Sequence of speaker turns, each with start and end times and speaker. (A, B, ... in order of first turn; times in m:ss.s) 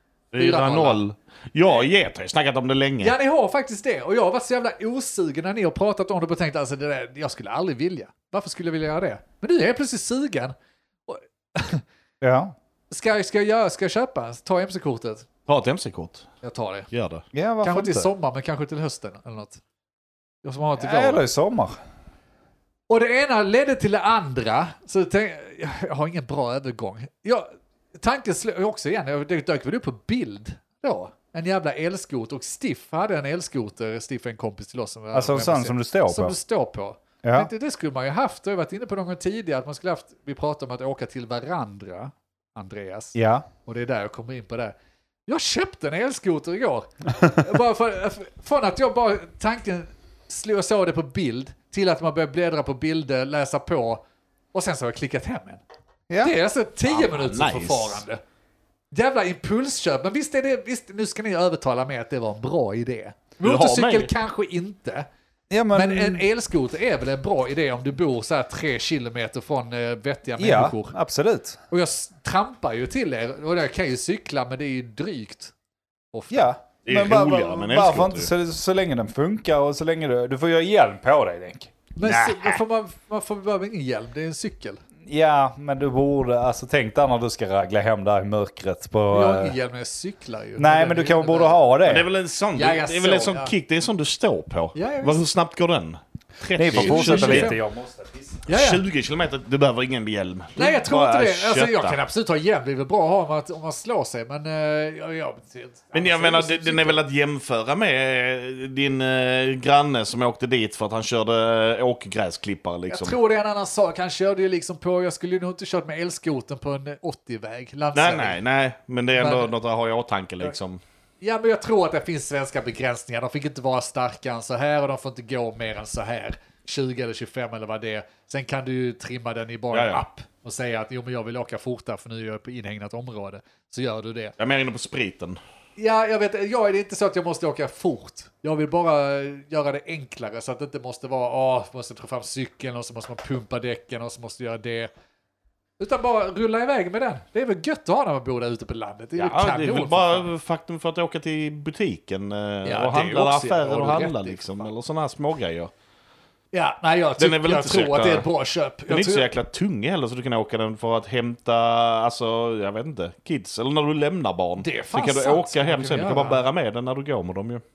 0:00.3-0:03.2 A
0:00.4-0:01.0 B
0:03.0-0:10.5 B
0:11.1-0:11.8 B
0:12.2-0:12.5 C
0:12.9-0:15.3 B
0:15.5-0:16.2 A
0:16.4-0:16.9 B
0:16.9-0:17.2 A
0:17.3-0:18.1 C
0:17.6-0:19.6 B
0:20.4-0:21.2 B
0:20.8-0:21.8 C
0:22.9-0:44.7 B
0:35.1-0:36.4 C
0:37.2-0:37.5 C
0:43.1-0:43.4 C
0:45.3-0:55.6 B
0:56.1-0:56.3 C
0:56.2-0:58.2 B
0:56.8-0:58.0 A
0:58.9-1:05.1 B
1:03.4-1:04.1 A
1:05.5-1:06.2 C
1:05.7-1:11.0 B
1:10.4-1:11.6 C
1:11.7-1:15.5 B
1:16.1-1:16.5 B
1:16.3-1:22.6 C
1:16.8-1:18.3 A
1:22.0-1:24.8 B
1:25.0-1:29.5 C
1:29.1-1:31.6 B
1:30.6-1:32.1 C
1:31.8-1:37.5 A
1:32.5-1:33.5 B
1:34.7-1:35.2 B
1:36.5-1:38.4 C
1:36.7-1:37.6 B
1:38.5-1:38.8 B
1:38.5-1:42.0 A
1:40.6-1:47.0 B
1:45.9-1:53.2 A
1:52.9-1:58.4 B
1:57.9-2:00.8 A
1:59.2-1:59.5 B
2:01.2-2:14.3 B
2:09.7-2:10.0 A
2:14.4-2:15.4 A
2:15.8-2:24.9 B
2:25.8-2:30.3 B
2:29.2-2:35.7 A
2:32.6-2:34.7 B
2:36.5-2:39.3 B
2:37.2-2:38.3 A
2:38.9-2:47.6 A
2:44.6-2:46.4 B